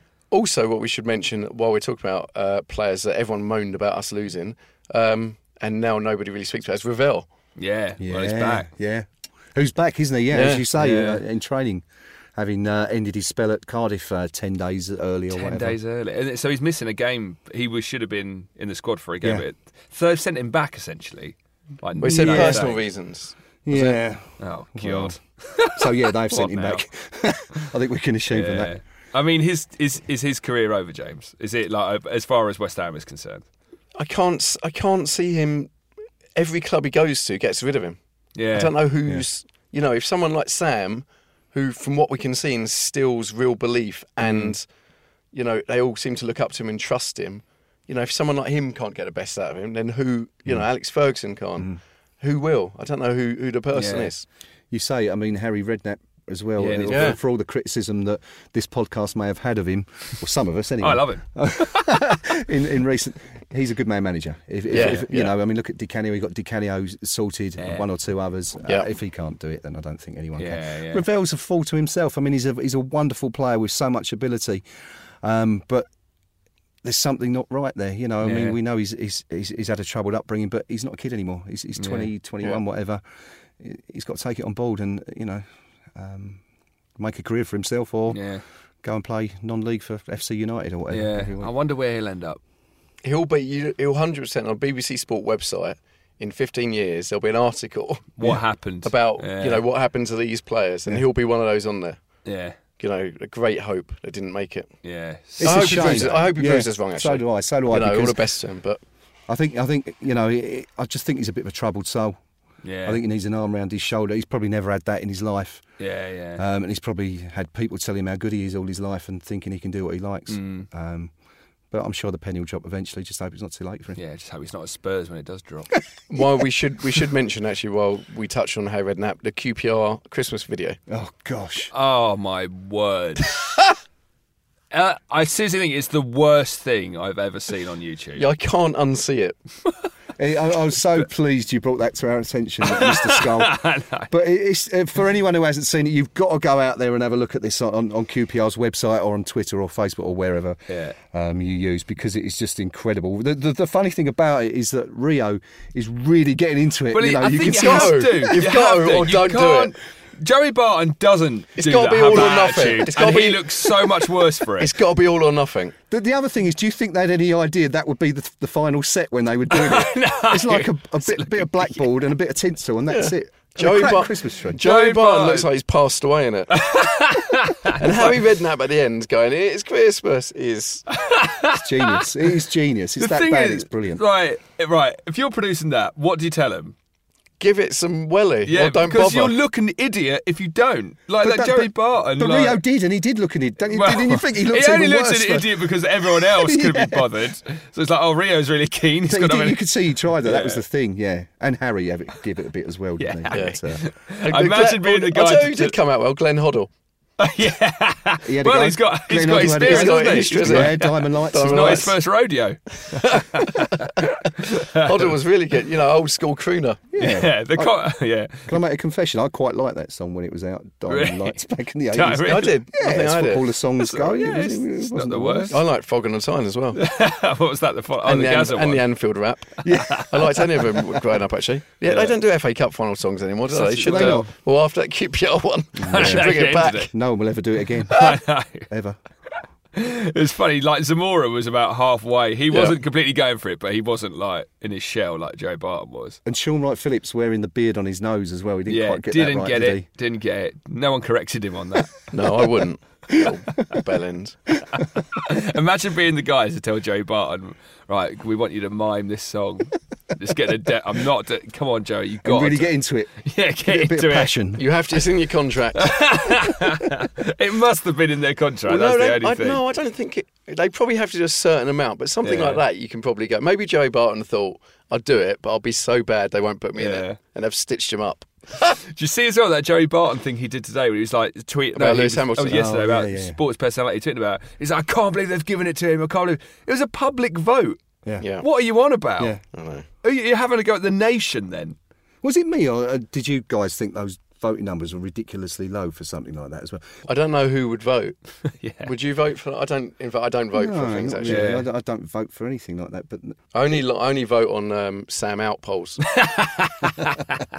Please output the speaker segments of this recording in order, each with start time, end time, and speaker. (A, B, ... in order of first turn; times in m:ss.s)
0:00.3-0:07.3 A
0:07.6-0:08.7 B
0:08.0-0:11.8 C
0:10.3-0:10.7 A
0:10.8-0:11.2 B
0:12.4-0:15.8 C
0:15.3-0:22.9 B
0:22.0-0:23.4 A
0:22.0-0:22.7 C
0:23.7-0:25.2 C
0:23.7-0:26.8 B
0:25.7-0:28.7 C
0:28.3-0:33.4 B
0:34.0-0:35.7 A
0:36.4-0:38.0 A
0:38.4-0:38.7 B
0:38.5-0:44.6 A
0:44.2-0:44.5 B
0:45.3-0:54.2 A
0:53.7-0:54.1 B
0:54.7-1:14.6 C
0:56.6-0:57.2 B
0:56.9-0:57.2 A
1:00.8-1:01.8 B
1:04.7-1:05.4 A
1:07.6-1:07.8 B
1:10.4-1:11.0 B
1:15.2-1:15.9 C
1:16.8-1:23.0 C
1:18.2-1:18.6 B
1:21.8-1:22.1 B
1:23.6-1:25.4 C
1:25.9-1:26.4 C
1:27.0-1:28.2 C
1:28.1-1:28.4 B
1:28.8-1:31.5 C
1:30.9-1:32.4 B
1:33.0-1:38.2 A
1:38.2-1:39.6 B
1:38.8-1:42.0 A
1:42.2-1:42.6 B
1:42.8-1:44.7 A
1:44.8-1:46.3 B
1:45.4-1:48.2 C
1:45.4-1:48.8 A
1:49.3-1:52.2 C
1:52.6-1:53.0 B
1:52.8-1:55.6 C
1:55.8-1:56.4 B
1:56.4-2:01.1 C
2:00.3-2:00.7 B
2:01.7-2:04.0 C
2:04.0-2:05.7 B
2:06.1-2:10.8 A
2:10.9-2:11.7 C
2:11.7-2:13.3 B
2:14.7-2:18.3 B
2:18.2-2:19.4 A
2:20.2-2:38.4 C
2:22.7-2:24.1 B
2:30.7-2:31.0 B
2:36.9-2:44.7 B
2:37.5-2:39.7 A
2:41.6-2:44.0 A
2:44.6-2:45.8 A
2:45.9-2:54.6 C
2:49.5-2:51.8 B
2:52.9-2:56.6 A
2:54.6-2:55.5 B
2:56.5-2:58.2 B
2:57.8-3:00.9 A
3:00.9-3:02.1 B
3:01.6-3:04.0 C
3:03.0-3:06.8 B
3:07.4-3:09.4 A
3:08.5-3:12.6 B
3:11.2-3:17.1 C
3:13.7-3:19.6 B
3:19.1-3:23.8 C
3:20.2-3:20.6 B
3:23.0-3:25.8 B
3:23.3-3:23.6 A
3:24.2-3:26.7 A
3:27.2-3:35.1 B
3:28.2-3:31.9 C
3:29.4-3:32.0 A
3:33.0-3:33.5 A
3:34.8-3:36.8 A
3:36.9-3:37.8 C
3:37.0-3:38.6 B
3:38.5-3:45.6 C
3:40.9-3:41.4 B
3:41.9-3:42.6 B
3:42.2-3:43.4 A
3:43.8-3:45.6 B
3:45.5-3:46.8 A
3:46.8-3:48.9 B
3:48.0-3:56.9 A
3:49.7-3:50.0 C
3:49.7-3:50.6 B
3:51.9-3:52.2 B
3:53.5-3:54.3 B
3:53.8-3:54.3 C
3:55.8-3:58.2 C
3:55.9-3:56.9 B
3:57.9-3:58.7 B
3:58.7-3:59.0 C
3:59.7-4:06.2 B
4:02.5-4:02.8 A
4:06.2-4:09.9 C
4:08.7-4:12.0 B
4:12.1-4:14.5 A
4:15.1-4:24.3 B
4:22.2-4:23.1 C
4:23.7-4:24.7 C
4:24.6-4:26.1 A
4:25.8-4:29.6 B
4:28.7-4:38.3 A
4:32.2-4:32.6 B
4:36.8-4:37.2 B
4:38.8-4:47.8 B
4:41.8-4:42.6 A
4:42.5-4:43.4 C
4:48.2-4:48.5 A
4:48.4-4:49.4 B
4:49.5-4:49.9 A
4:50.0-4:51.8 B
4:52.2-4:56.9 C
4:57.1-4:58.2 A
4:58.5-4:58.9 B
4:58.8-5:01.5 A
5:00.6-5:03.4 C
5:01.2-5:01.7 B
5:03.5-5:06.0 A
5:06.1-5:07.4 B